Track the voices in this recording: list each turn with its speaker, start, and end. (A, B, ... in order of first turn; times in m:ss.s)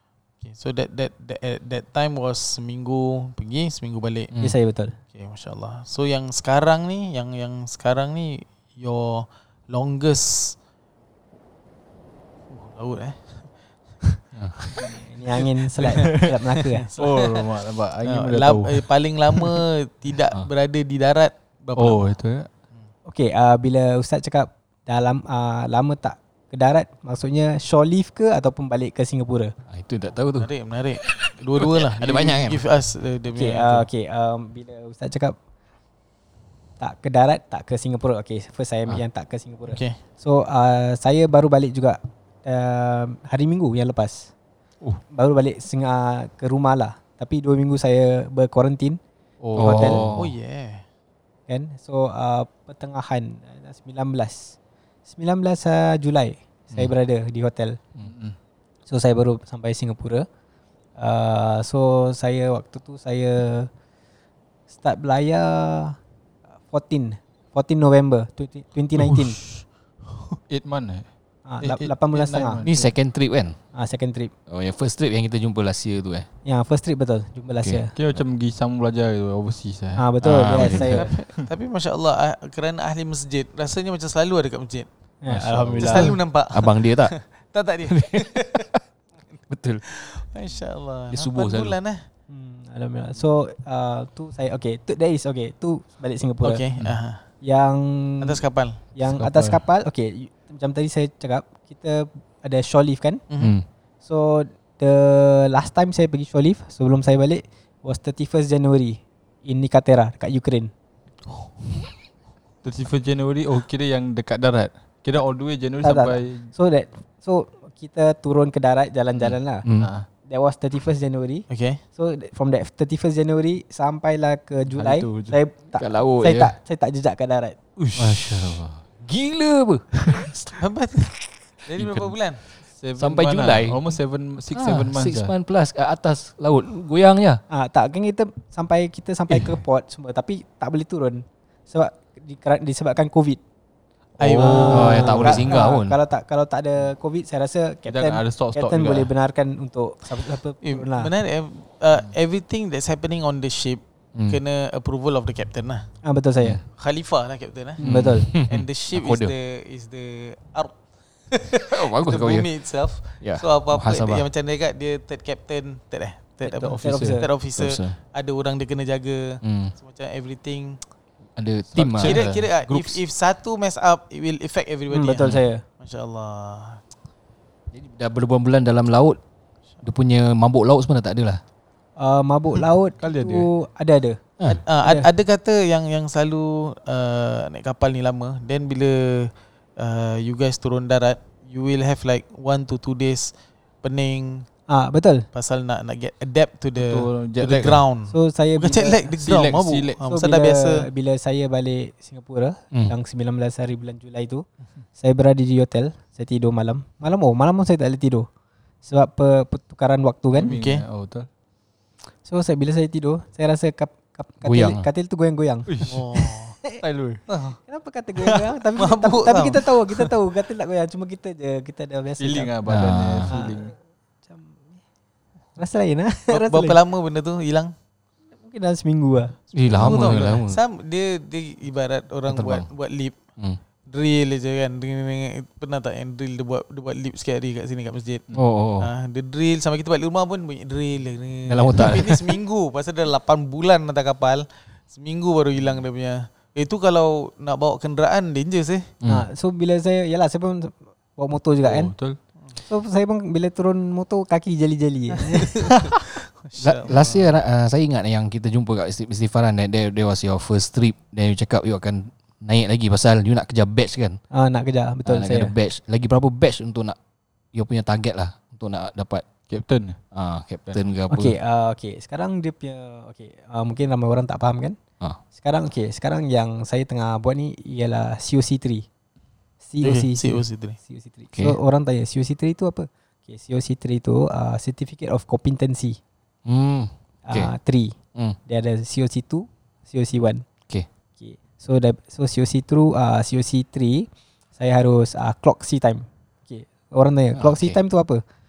0:00.4-0:04.3 A
0:04.4-0:05.0 B
0:05.1-0:10.6 A
0:12.5-0:14.2 A
0:14.9-0:16.8 B
0:15.8-0:17.5 A
0:15.9-0:16.3 C
0:17.0-0:19.6 C
0:18.0-0:22.1 A
0:21.8-0:22.5 C
0:23.1-0:29.5 B
0:29.7-0:30.5 D
0:30.4-0:33.9 A
0:31.0-0:32.6 D
0:33.3-0:35.3 B
0:36.8-0:44.3 B
0:39.7-0:40.0 A
0:45.1-0:49.0 B
0:49.4-0:50.2 C
0:49.6-0:50.0 B
0:49.6-0:50.3 D
0:50.1-0:50.8 A
0:51.5-0:54.6 B
0:55.1-0:57.8 B
0:58.0-0:58.4 C
0:58.9-1:00.2 B
1:01.0-1:03.7 B
1:04.7-1:06.0 B
1:06.7-1:09.4 B
1:10.5-1:11.1 C
1:11.5-1:12.6 B
1:11.6-1:12.9 C
1:12.6-1:13.6 D
1:13.7-1:14.3 B
1:14.5-1:16.3 D
1:16.4-1:17.9 B
1:17.9-1:20.0 C
1:20.0-1:21.1 B
1:20.2-1:21.0 D
1:20.6-1:24.9 A
1:25.2-1:26.2 B
1:25.3-1:27.2 D
1:25.4-1:25.9 C
1:25.8-1:28.7 A
1:27.9-1:28.8 D
1:29.5-1:29.8 D
1:29.9-1:32.0 A
1:31.1-1:31.8 D
1:32.3-1:36.6 B
1:36.4-1:37.2 A
1:37.4-1:38.4 B
1:38.2-1:38.8 A
1:38.9-1:43.2 B
1:39.0-1:39.6 C
1:43.3-1:43.5 A
1:43.4-1:43.6 D
1:44.0-1:50.7 B
1:52.6-1:56.5 C
1:55.8-1:59.6 B
1:59.6-1:59.9 D
1:59.8-2:00.1 C
2:00.2-2:07.6 B
2:01.5-2:01.8 A
2:04.7-2:05.4 C
2:05.8-2:06.5 D
2:07.8-2:08.4 C
2:08.0-2:10.3 D
2:10.4-2:12.4 A
2:11.8-2:12.1 D
2:12.7-2:15.3 C
2:13.0-2:13.8 D
2:14.5-2:17.4 D
2:17.5-2:23.4 B
2:24.2-2:25.3 A
2:24.2-2:25.4 C
2:24.4-2:31.1 B
2:24.6-2:26.0 D
2:27.9-2:29.1 C
2:30.6-2:35.9 A
2:36.0-2:36.6 B
2:36.7-2:37.8 A
2:37.8-2:38.3 B
2:37.8-2:39.3 D
2:38.3-2:50.8 A
2:41.6-2:42.5 D
2:43.2-2:44.3 D
2:46.4-2:47.3 B
2:46.8-2:47.1 C
2:47.5-2:48.0 D
2:49.4-2:49.7 D
2:51.4-2:52.2 D
2:51.7-2:52.9 C
2:52.0-2:56.8 A
2:54.9-2:55.6 B
2:57.7-2:59.2 D
2:59.8-3:01.4 D
3:02.0-3:04.2 B
3:03.0-3:03.5 C
3:04.5-3:13.3 A
3:04.8-3:05.1 B
3:13.8-3:14.5 A
3:14.7-3:15.2 B
3:15.3-3:20.9 A
3:16.8-3:17.8 C
3:18.1-3:19.2 B
3:19.2-3:20.0 C
3:20.0-3:24.4 B
3:25.0-3:28.3 B
3:28.8-3:30.6 B
3:30.4-3:31.3 C
3:30.4-3:30.8 A
3:32.2-3:36.8 B
3:34.4-3:34.9 D
3:35.7-3:36.0 C
3:35.8-3:36.6 A
3:36.8-3:37.2 C
3:37.3-3:37.6 A
3:37.7-3:42.5 B
3:38.8-3:40.1 A
3:42.2-3:43.7 C
3:42.6-3:43.3 D
3:43.2-3:43.8 B
3:44.3-3:44.6 B
3:45.6-3:46.8 B
3:46.3-3:47.7 A
3:48.3-3:49.9 B
3:49.5-3:50.6 D
3:49.7-3:53.1 A
3:52.3-3:52.7 D
3:53.9-3:58.3 A
3:58.3-3:58.9 D
3:58.8-4:08.9 A
4:01.5-4:02.3 D
4:09.0-4:11.9 B
4:11.6-4:12.2 C
4:12.6-4:15.6 B
4:15.3-4:17.2 A
4:16.6-4:24.2 D
4:24.3-4:25.5 B
4:25.0-4:27.0 D
4:27.5-4:29.3 D
4:29.5-4:30.0 C
4:30.1-4:31.4 D
4:31.1-4:34.8 B
4:35.3-4:38.8 B
4:39.6-4:46.0 B
4:39.8-4:40.8 A
4:46.4-4:47.5 D
4:47.3-4:50.4 B
4:51.2-4:58.2 B
4:57.3-4:57.8 D